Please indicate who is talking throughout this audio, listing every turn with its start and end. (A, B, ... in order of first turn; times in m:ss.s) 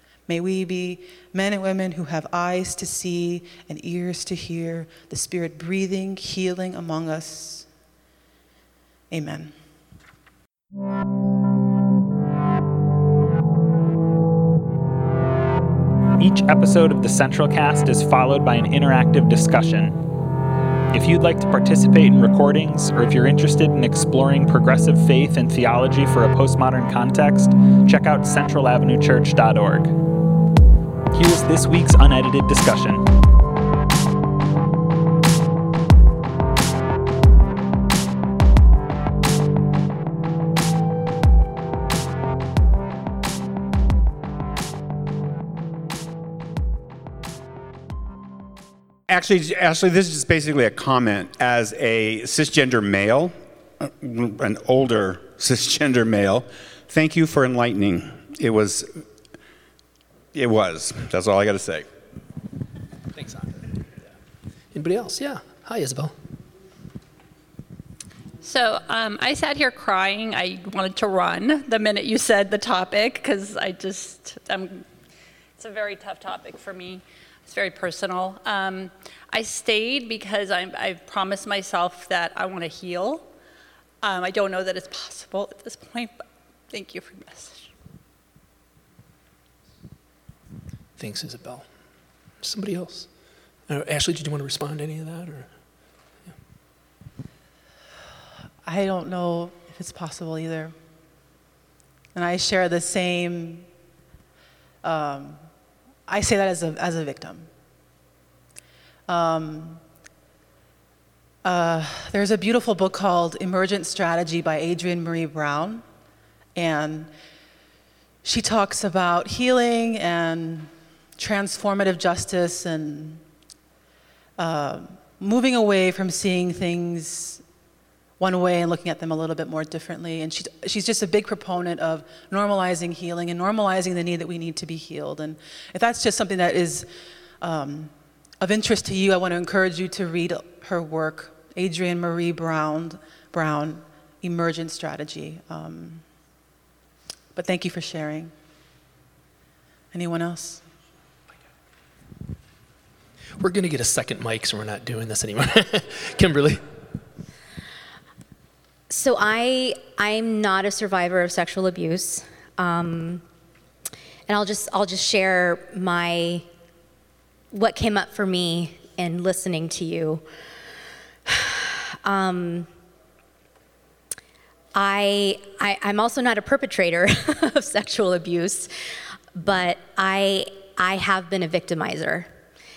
0:00.3-0:07.7 A
0:09.1-0:09.5 A
0:16.2-0:20.0 B
0:20.9-0:30.0 B
0:31.1-0:33.1 B
0:49.1-0:58.9 C
1:00.3-1:01.9 C
1:03.2-1:03.6 D
1:04.7-1:06.1 D
1:08.4-1:14.9 E
1:15.6-1:23.2 E
1:24.0-1:27.7 E
1:31.0-1:31.7 D
1:32.4-1:33.1 D
1:33.7-1:35.5 D
1:38.6-1:40.7 A
1:42.1-1:43.7 A
1:44.8-1:45.4 A
1:46.1-1:47.5 A
1:49.1-1:49.8 A
1:51.4-1:55.8 A
1:56.6-1:57.1 A
1:58.2-2:03.2 A
2:04.4-2:07.4 A
2:08.2-2:16.9 A
2:17.4-2:26.0 A
2:27.3-2:28.3 A
2:29.9-2:30.6 A
2:33.4-2:36.6 D
2:38.9-2:43.2 F
2:44.3-2:46.4 F
2:47.5-2:50.2 F
2:51.3-2:52.7 F
2:54.7-2:58.7 F
2:59.3-3:02.3 F